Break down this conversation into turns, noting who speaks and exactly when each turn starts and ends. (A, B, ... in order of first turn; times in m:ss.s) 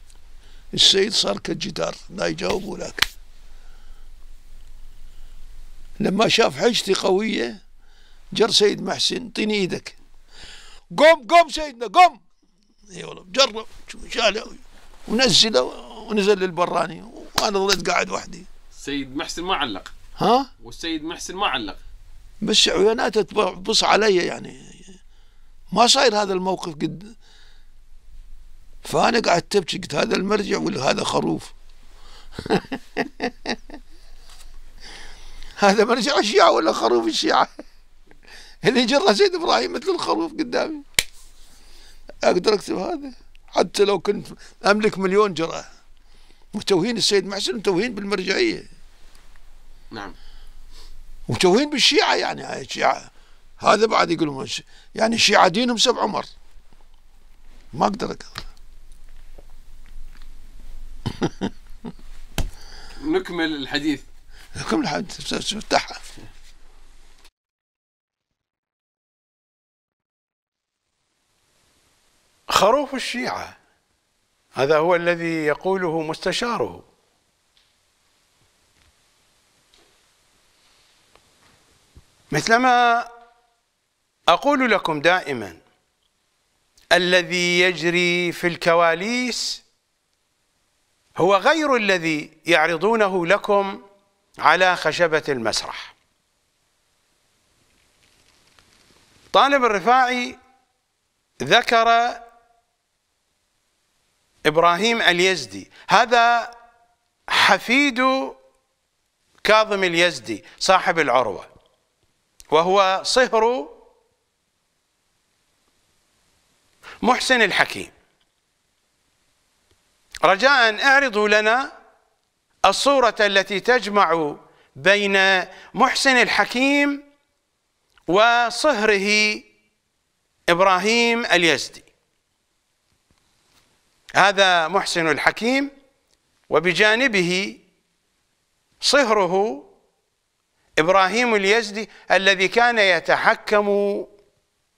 0:00.7-0:03.1 A
0:06.0-0:07.6 A
0:08.3-0:10.0 A
0:10.9-0:12.2 A
0:12.9-0:18.5 A
0:18.8-0:19.9 B
0:20.2-0:20.5 A
0:20.6-0:21.8 B
0:22.4-0:24.9 A
0:25.7-0:27.1 A
0:28.8-0:31.5 A
0:32.5-0:33.5 A
0:35.6-0:37.6 A
0:38.6-0:40.8 A
0:42.2-0:45.7 A
0:46.5-0:48.7 A
0:51.3-0:53.1 A
0:53.6-0:56.3 A
0:57.7-0:58.3 A
1:01.2-1:01.5 A
1:03.0-1:04.0 B
1:04.6-1:06.0 A
1:12.5-1:13.5 C
1:14.6-1:16.8 C
1:22.3-1:23.1 C
1:24.3-1:25.6 C
1:26.9-1:29.6 C
1:31.2-1:33.8 C
1:34.4-1:35.9 C
1:39.3-1:40.4 C
1:41.4-1:42.2 C
1:44.4-1:46.5 C
1:47.3-1:48.3 C
1:49.4-1:51.5 C
1:52.5-1:53.7 C
1:57.0-1:57.9 C
2:00.2-2:01.7 C
2:02.7-2:07.0 C
2:08.1-2:09.4 C
2:10.5-2:11.8 C
2:14.2-2:15.7 C
2:16.5-2:17.6 C
2:18.8-2:19.7 C
2:20.8-2:24.1 C